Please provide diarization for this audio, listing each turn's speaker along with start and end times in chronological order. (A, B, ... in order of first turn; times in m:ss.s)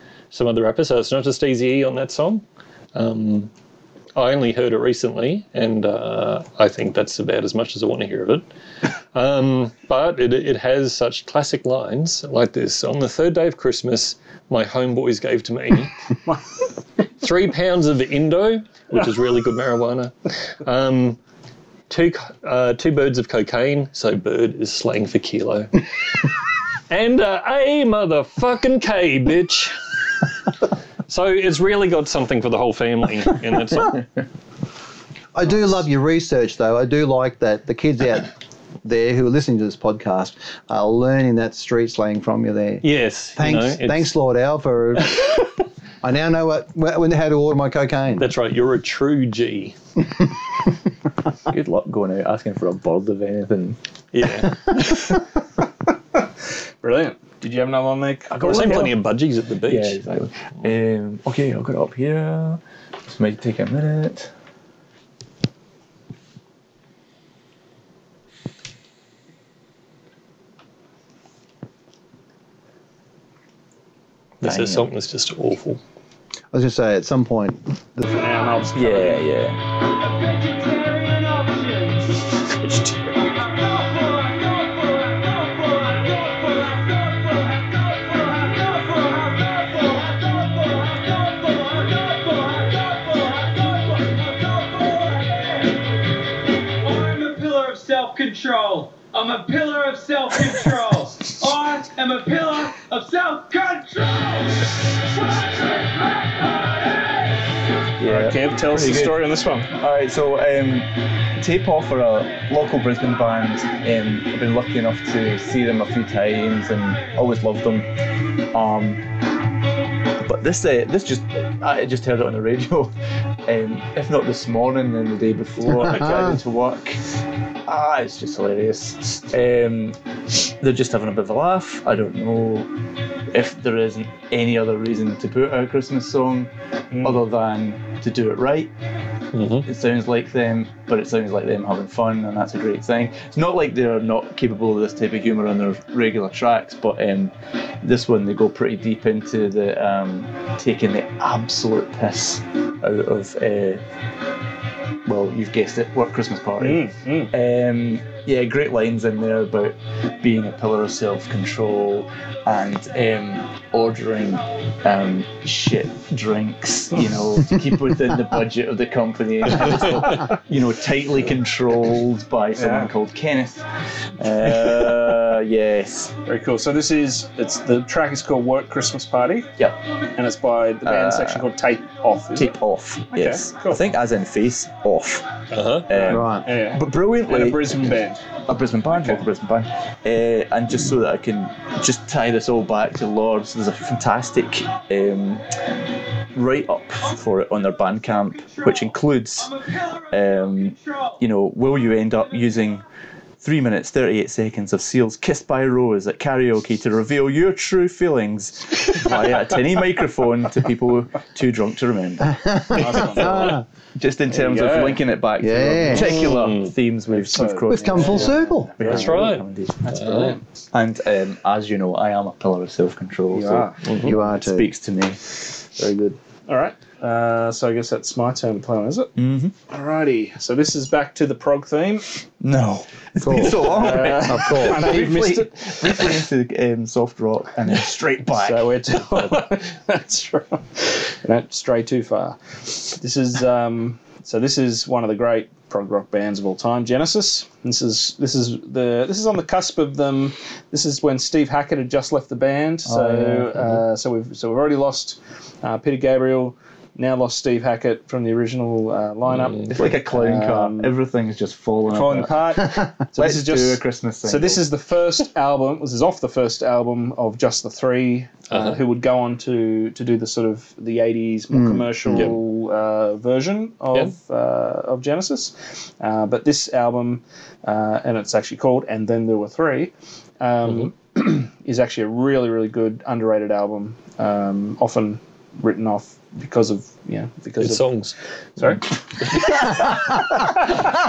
0:00.3-0:03.5 A
0:04.2-0:08.4 A
0:09.1-0:15.9 A
0:17.2-0:21.2 A
0:21.9-0:25.9 A
0:26.9-0:29.7 A
0:31.1-0:34.0 A
0:35.3-0:38.3 B
0:38.8-0:42.8 B
0:42.8-0:44.1 A
0:43.4-0:45.3 B
0:46.0-0:48.3 B
0:48.2-0:49.8 A
0:51.5-0:53.8 C
0:54.1-0:55.2 A
0:56.8-0:58.9 D
0:58.3-0:59.0 C
0:58.4-1:00.0 A
0:59.7-1:04.3 C
1:14.4-1:15.8 A
1:14.4-1:14.9 C
1:16.5-1:18.2 B
1:18.0-1:19.2 D
1:18.7-1:19.6 C
1:20.0-1:22.0 E
1:23.4-1:35.8 E
1:36.8-1:44.6 E
1:45.6-1:47.4 E
1:48.0-1:57.9 C
1:48.0-1:49.7 D
1:58.5-1:59.0 C
2:00.2-2:02.9 C
2:03.5-2:07.0 C
2:05.7-2:06.4 B
2:07.7-2:10.0 C
2:10.6-2:12.7 C
2:13.3-2:18.7 C
2:16.9-2:17.2 D
2:19.3-2:19.7 A
2:19.6-2:33.8 C
2:35.0-2:53.6 C
2:36.6-2:37.3 D
2:52.6-2:52.9 D
2:54.2-2:56.2 C
2:56.3-2:59.5 D
3:00.2-3:02.6 D
3:00.8-3:01.5 C
3:02.4-3:05.3 C
3:03.1-3:03.8 D
3:05.5-3:05.9 A
3:05.9-3:15.4 C
3:05.9-3:08.2 D
3:06.1-3:06.5 B
3:16.3-3:22.8 C
3:23.4-3:45.2 C
3:32.2-3:33.6 B
3:32.7-3:33.6 D
3:34.3-3:35.0 D
3:35.4-3:36.2 B
3:36.2-3:36.7 A
3:37.1-3:39.3 D
3:37.7-3:38.7 B
3:38.8-3:40.4 A
3:39.8-3:40.4 D
3:43.3-3:43.8 D
3:43.8-3:44.1 A
3:44.0-3:44.7 B
3:45.8-3:49.1 D
3:49.2-3:49.5 C
3:49.7-3:52.1 D
3:52.4-3:58.8 C
3:53.2-3:55.0 B
3:53.6-3:56.2 D
3:58.3-4:20.9 D
4:12.9-4:13.5 C
4:19.3-4:19.7 A
4:19.7-4:24.6 C
4:21.9-4:47.9 D
4:28.5-4:28.8 A
4:31.5-4:32.3 B
4:32.1-4:32.4 A
4:47.6-4:48.2 A
4:48.6-4:48.8 D